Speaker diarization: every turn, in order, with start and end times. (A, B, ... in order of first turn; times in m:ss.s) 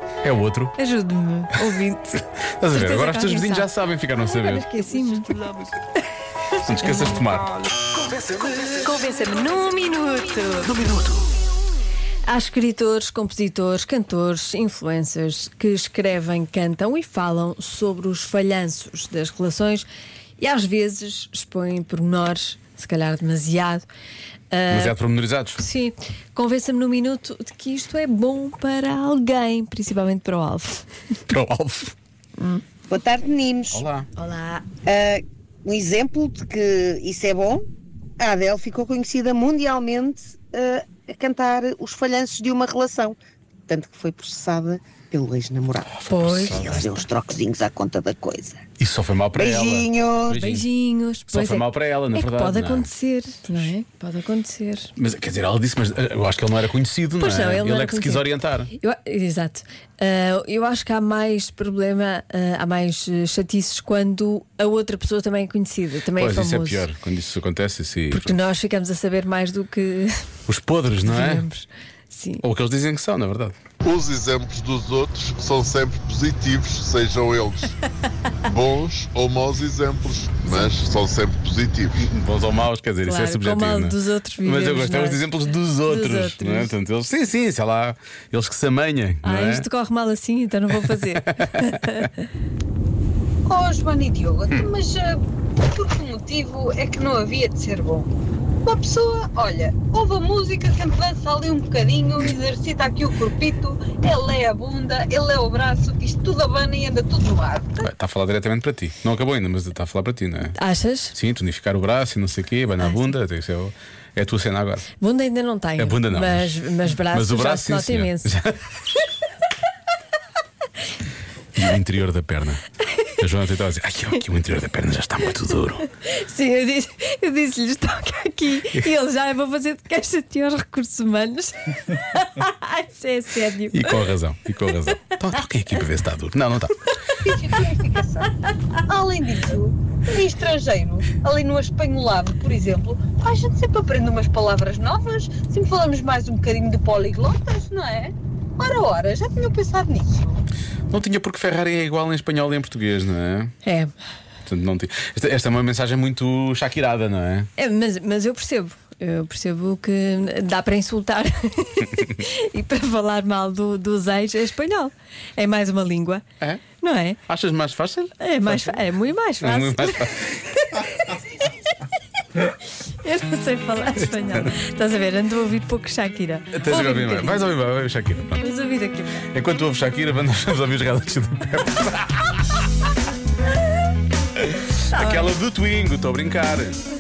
0:00.2-0:00.8 A
0:00.8-0:05.5 B
0:02.6-0:04.7 A
0:06.6-0:07.6 A
0:06.9-0:07.3 B
0:08.3-0:10.8 B
0:10.7-0:11.2 A
0:12.3-0:19.9 B
0:20.4-0:23.8 B
0:24.5-0:25.0 B
0:24.7-0:25.6 A
0:25.6-0:30.9 B
0:31.3-0:32.0 A
0:32.9-0:33.7 C
0:33.7-0:34.1 A
0:34.2-0:34.7 B
0:34.9-0:37.7 C
0:38.2-0:43.2 C
0:43.7-0:45.9 C
0:46.0-0:47.0 A
0:46.1-0:46.9 B
0:46.8-0:48.5 C
0:48.8-0:50.7 A
0:49.5-0:50.3 C
0:50.4-0:54.9 B
0:51.3-0:52.9 A
0:55.0-0:58.7 A
0:57.2-1:06.9 B
1:06.2-1:08.4 A
1:08.1-1:10.3 B
1:10.5-1:11.5 A
1:11.0-1:12.4 B
1:12.4-1:13.6 A
1:13.8-1:17.7 D
1:18.5-1:22.0 D
1:22.0-1:29.7 A
1:23.0-1:25.3 B
1:25.8-1:26.7 B
1:29.2-1:32.1 B
1:30.9-1:32.1 A
1:33.5-1:35.1 E
1:35.7-1:38.1 E
1:38.6-1:47.8 E
1:47.8-1:50.6 A
1:50.6-1:51.2 B
1:51.1-1:54.9 A
1:55.0-1:58.3 B
1:55.8-1:58.6 A
2:01.6-2:02.6 A
2:03.2-2:05.8 A
2:06.0-2:14.0 B
2:13.7-2:16.8 A
2:17.2-2:18.3 E
2:18.9-2:30.4 E
2:30.9-2:33.6 A
2:33.6-2:33.9 B
2:34.5-2:37.5 A
2:37.6-2:46.2 B
2:46.8-2:47.2 B
2:47.3-2:48.8 A
2:48.2-2:50.9 B
2:49.4-2:50.3 A
2:53.0-2:57.5 B
2:56.5-2:58.4 A
2:58.4-2:59.3 B
2:59.3-3:02.6 A
3:04.4-3:06.8 A
3:04.9-3:05.3 B